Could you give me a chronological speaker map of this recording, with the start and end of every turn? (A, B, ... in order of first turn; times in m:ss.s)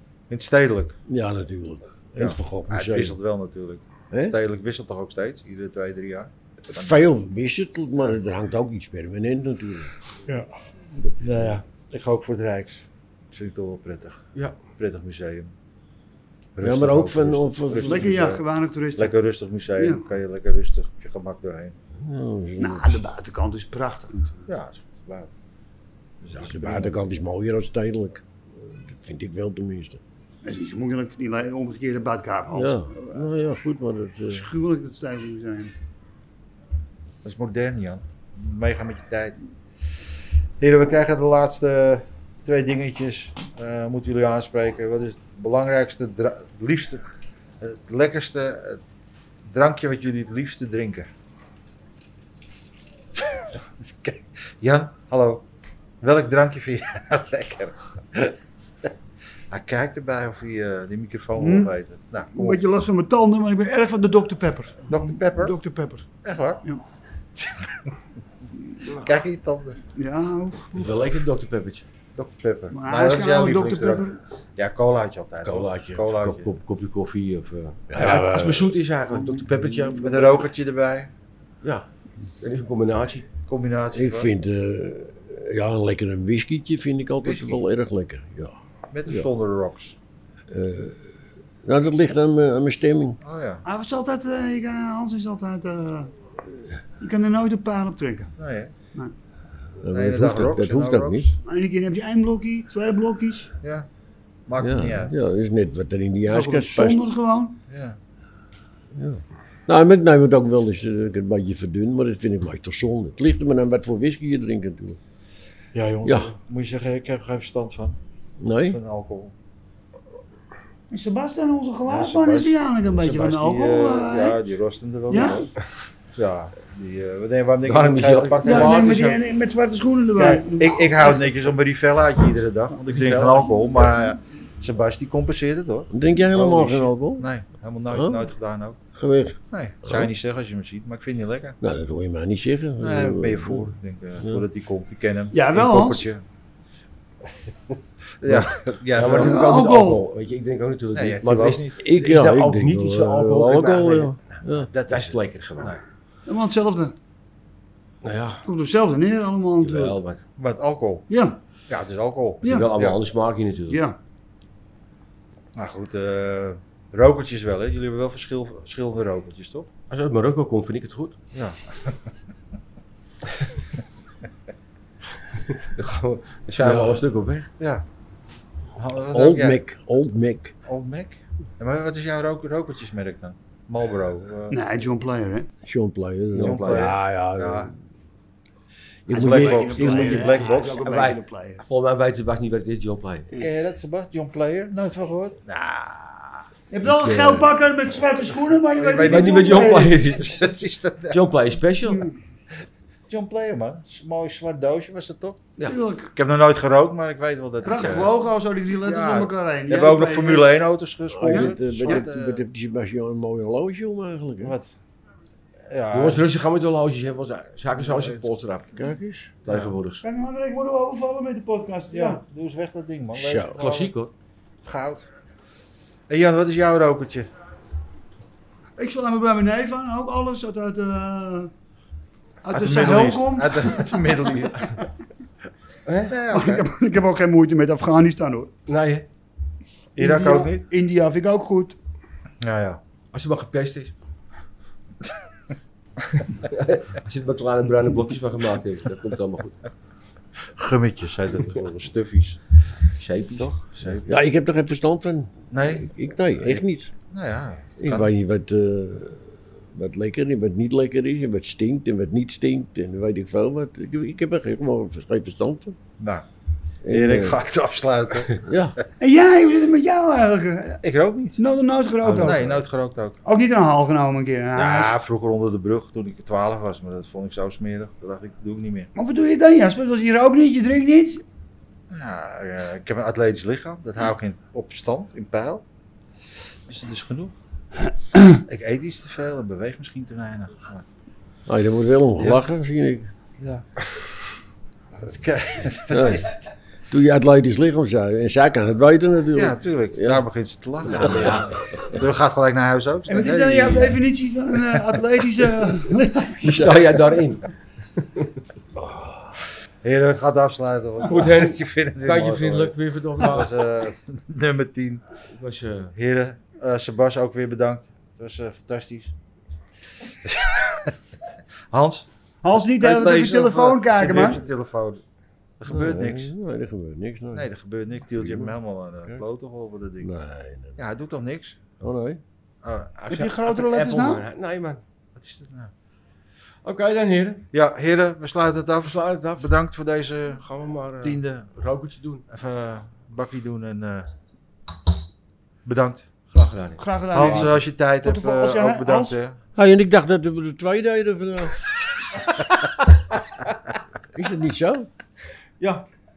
0:00.3-0:01.0 A
0:01.1-0:03.2 B
0:02.2-0:07.0 A
0:06.7-0:09.9 B
0:11.1-0:14.2 A
0:14.8-0:15.5 A
0:16.6-0:18.4 A
0:16.6-0:18.3 B
0:17.8-0:19.1 C
0:19.0-0:21.7 A
0:19.8-0:20.0 C
0:22.0-0:23.0 B
0:22.6-0:24.5 C
0:24.5-0:25.3 A
0:26.2-0:27.0 A
0:26.3-0:30.0 B
0:30.4-0:33.2 C
0:32.5-0:34.5 B
0:34.3-0:35.7 C
0:37.2-0:39.4 A
0:40.6-0:47.0 A
0:47.6-0:48.8 A
0:49.4-0:51.1 A
0:53.1-0:55.4 A
0:56.0-0:58.9 A
0:59.5-1:02.6 A
1:01.4-1:01.7 C
1:02.3-1:06.1 C
1:04.9-1:05.6 A
1:06.2-1:06.6 A
1:07.4-1:07.9 A
1:08.9-1:09.8 A
1:09.9-1:10.8 C
1:10.7-1:11.8 D
1:12.2-1:16.5 A
1:12.7-1:14.2 C
1:15.4-1:20.4 D
1:17.9-1:18.7 B
1:19.1-1:19.4 C
1:19.9-1:21.1 A
1:22.4-1:23.3 D
1:23.4-1:24.3 A
1:23.9-1:28.5 B
1:27.2-1:27.6 A
1:28.9-1:30.0 A
1:30.5-1:31.1 B
1:31.6-1:33.2 B
1:33.2-1:33.6 A
1:33.6-1:36.1 C
1:37.0-1:38.3 C
1:38.4-1:38.7 A
1:39.8-1:41.2 B
1:39.9-1:41.4 A
1:41.4-1:43.5 C
1:43.6-1:43.9 A
1:44.5-1:45.1 A
1:44.6-1:47.1 B
1:46.3-1:47.6 C
1:47.7-1:48.0 A
1:48.9-1:55.0 B
1:55.7-1:58.0 A
1:56.0-1:56.3 B
1:58.4-1:58.8 B
1:58.7-1:59.3 A
2:00.9-2:04.4 C
2:01.8-2:05.5 A
2:05.1-2:05.5 C
2:06.1-2:09.0 A
2:07.6-2:09.2 D
2:08.4-2:11.3 C
2:10.2-2:18.8 A
2:12.9-2:13.7 D
2:15.9-2:17.3 B
2:17.9-2:18.3 B
2:18.9-2:20.1 B
2:19.5-2:21.6 A
2:21.6-2:23.7 B
2:22.8-2:26.2 A
2:25.3-2:26.1 C
2:28.2-2:29.4 A
2:28.9-2:35.8 D
2:29.1-2:30.0 C
2:30.9-2:31.8 A
2:31.8-2:34.7 B
2:34.5-2:35.8 A
2:36.2-2:36.9 C
2:38.0-2:38.4 D
2:38.4-2:40.0 C
2:39.6-2:40.2 D
2:40.4-2:41.0 A
2:41.1-2:41.4 C
2:41.7-2:43.0 A
2:42.4-2:42.7 C
2:42.4-2:43.8 D
2:43.7-2:44.0 C
2:45.5-2:49.7 A
2:49.9-2:51.2 D
2:51.3-2:52.1 A
2:55.5-2:57.5 D
2:56.6-2:57.0 B
2:57.6-2:57.8 A
2:58.7-2:59.6 A
2:59.1-3:00.5 B
3:00.6-3:04.6 A
3:04.5-3:05.5 C
3:05.6-3:07.7 B
3:06.3-3:07.0 D
3:06.4-3:07.7 A
3:09.1-3:10.2 B
3:09.1-3:11.6 C
3:09.1-3:10.8 A
3:10.3-3:13.3 D
3:13.3-3:16.4 A
3:16.7-3:20.0 C
3:16.8-3:17.4 B
3:18.7-3:21.2 A
3:19.0-3:20.5 D
3:21.1-3:22.1 D
3:21.9-3:22.1 C
3:23.1-3:25.4 A
3:25.6-3:26.1 C
3:26.1-3:28.1 A
3:27.6-3:30.6 C
3:28.8-3:32.4 A
3:31.1-3:34.6 B
3:31.3-3:32.0 C
3:34.4-3:34.7 A
3:35.7-3:36.2 A
3:35.9-3:38.7 D
3:37.8-3:38.2 A
3:38.8-3:39.3 B
3:39.4-3:40.0 D
3:39.5-3:39.8 A
3:40.0-3:42.2 C
3:41.9-3:43.9 A
3:43.1-3:43.5 B
3:43.5-3:44.1 D
3:44.6-3:45.0 A
3:46.1-3:47.3 A
3:48.8-3:51.5 C
3:52.4-3:54.3 C
3:52.5-3:54.8 A
3:55.8-3:56.1 D
3:56.1-3:56.7 A
3:56.3-3:58.5 C
3:58.7-3:59.0 D
4:00.0-4:00.6 A
4:00.0-4:01.8 C
4:02.4-4:02.8 A
4:03.1-4:03.9 D
4:06.1-4:09.6 D
4:10.5-4:12.4 A
4:13.0-4:14.2 D
4:13.4-4:14.0 A
4:14.1-4:16.9 B
4:15.5-4:18.1 A
4:17.8-4:25.8 B
4:26.0-4:26.2 A
4:26.8-4:27.4 B
4:26.9-4:28.4 A
4:28.4-4:28.8 B
4:29.0-4:30.8 C
4:30.8-4:31.4 A
4:31.4-4:32.6 C
4:32.0-4:33.2 A
4:33.2-4:35.0 C
4:34.5-4:38.9 A
4:38.9-4:41.2 C
4:41.9-4:45.6 A
4:46.6-4:47.4 A
4:48.3-4:50.8 A
4:51.4-4:53.1 B
4:52.2-4:52.4 A
4:53.4-4:53.6 A
4:55.0-4:56.5 A
4:55.9-4:56.3 B
4:56.9-5:00.2 B
4:59.3-5:04.0 A
5:00.8-5:01.5 B
5:00.8-5:01.6 D
5:03.1-5:06.4 C
5:04.7-5:05.0 A
5:06.4-5:08.3 D
5:06.4-5:06.8 B
5:08.7-5:09.4 B
5:09.8-5:15.0 A
5:11.0-5:13.6 D
5:15.4-5:15.9 D
5:15.9-5:19.1 A
5:20.1-5:21.0 A
5:21.7-5:22.1 A
5:22.4-5:24.4 C
5:22.8-5:25.0 A
5:25.6-5:26.3 A
5:25.7-5:27.5 B
5:27.3-5:30.1 A
5:28.1-5:28.5 B
5:30.0-5:30.8 B
5:30.8-5:31.6 A
5:31.8-5:32.2 B
5:32.6-5:32.9 A
5:33.0-5:34.8 D
5:33.1-5:34.2 C
5:35.1-5:35.7 A
5:36.6-5:37.4 D
5:37.5-5:40.4 A
5:38.8-5:39.5 D
5:40.4-5:42.2 D
5:41.0-5:41.5 A
5:42.3-5:44.1 A
5:45.6-5:46.0 A
5:46.3-5:47.6 D
5:46.8-5:49.2 C
5:47.1-5:49.4 A
5:49.5-5:51.7 B
5:54.1-5:54.9 B